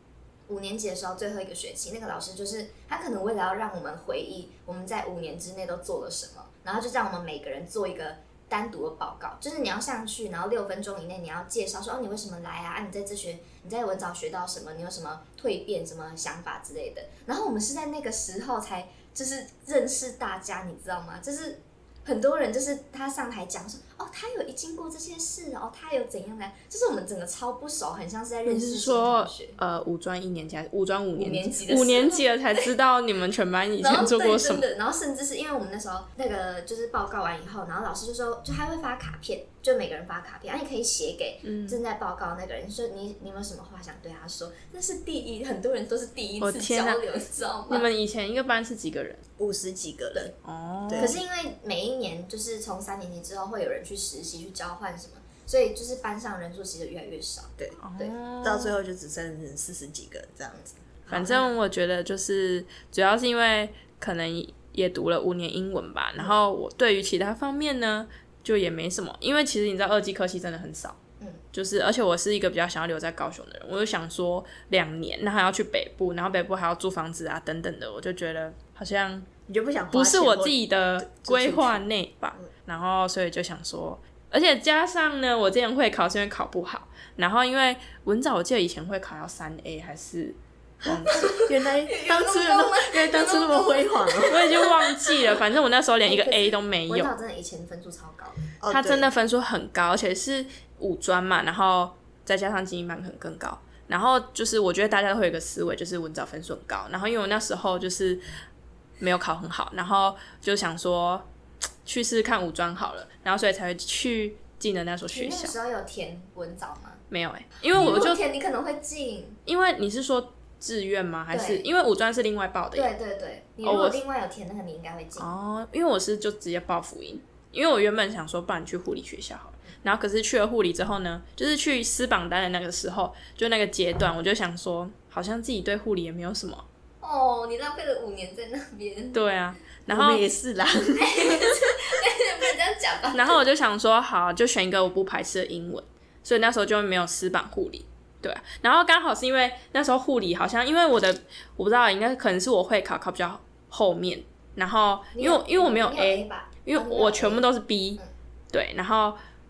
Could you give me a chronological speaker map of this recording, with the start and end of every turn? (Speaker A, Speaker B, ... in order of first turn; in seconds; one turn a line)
Speaker A: 0.5-29.6
Speaker B: 28.5-34.6
Speaker A: 31.2-32.7
Speaker A: 33.8-47.9
Speaker B: 41.4-41.8
Speaker B: 46.4-47.0
Speaker B: 47.7-49.2
Speaker C: 49.4-50.3
Speaker B: 50.4-51.2
Speaker C: 50.9-51.2
Speaker A: 51.0-57.5
Speaker B: 57.8-58.8
Speaker C: 58.4-60.9
Speaker A: 61.1-61.5
Speaker B: 61.1-71.0
Speaker B: 71.5-79.3
Speaker C: 79.5-81.8
Speaker B: 79.9-91.3
Speaker C: 90.8-94.6
Speaker A: 91.1-95.4
Speaker B: 94.3-97.1
Speaker A: 96.0-98.5
Speaker C: 98.6-99.1
Speaker B: 98.7-108.2
Speaker B: 109.0-111.3
Speaker B: 111.9-115.5
Speaker A: 115.1-117.0
Speaker B: 117.1-118.2
Speaker A: 117.8-119.4
Speaker B: 119.5-122.9
Speaker A: 121.3-121.7
Speaker A: 122.7-125.3
Speaker B: 123.6-124.0
Speaker B: 125.2-136.6
Speaker A: 137.0-139.2
Speaker B: 139.1-140.3
Speaker C: 139.9-141.5
Speaker A: 140.9-143.4
Speaker B: 143.1-158.0
Speaker A: 155.2-157.4
Speaker B: 158.5-159.2